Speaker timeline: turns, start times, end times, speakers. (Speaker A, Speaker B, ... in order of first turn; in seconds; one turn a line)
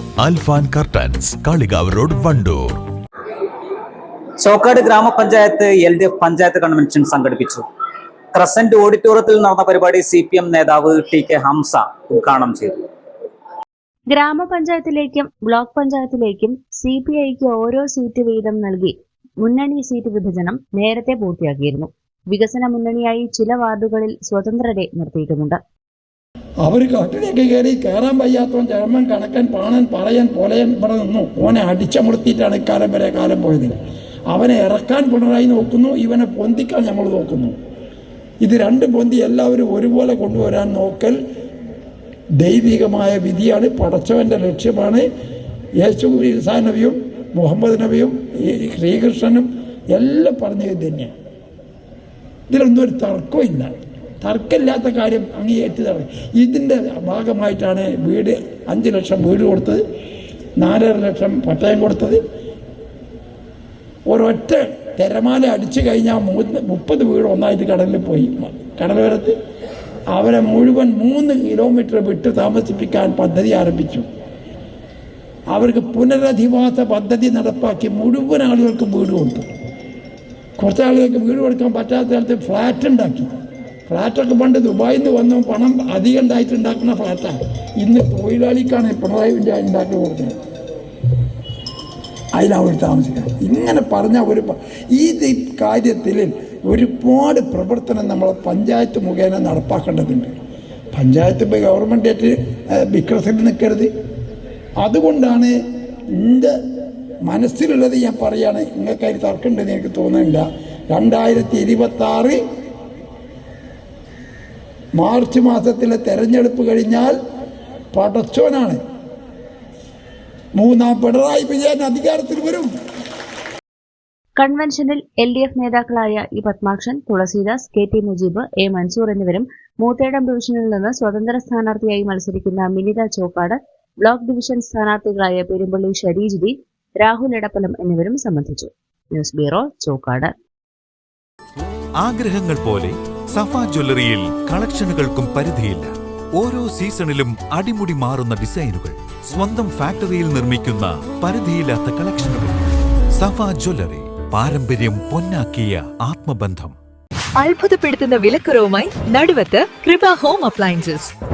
Speaker A: 0.2-2.8
Speaker B: 4.4-7.6
Speaker B: 8.4-12.8
Speaker C: 14.1-25.6
Speaker D: 26.6-33.7
Speaker D: 34.3-37.5
Speaker D: 38.4-41.2
Speaker D: 42.4-45.1
Speaker D: 45.8-51.1
Speaker D: 52.5-59.8
Speaker D: 60.6-62.2
Speaker D: 64.1-69.3
Speaker D: 70.1-74.1
Speaker D: 75.5-79.5
Speaker D: 80.6-83.3
Speaker D: 83.9-90.4
Speaker D: 92.4-100.3
Speaker D: 100.9-103.9
Speaker D: 104.8-105.5
Speaker D: 106.2-106.5
Speaker D: 107.3-112.4
Speaker D: 115.0-117.2
Speaker D: 117.9-118.8
Speaker D: 120.6-122.7
Speaker C: 124.4-140.3
Speaker E: 142.0-152.6
Speaker E: 153.2-156.8
Speaker F: 157.4-161.1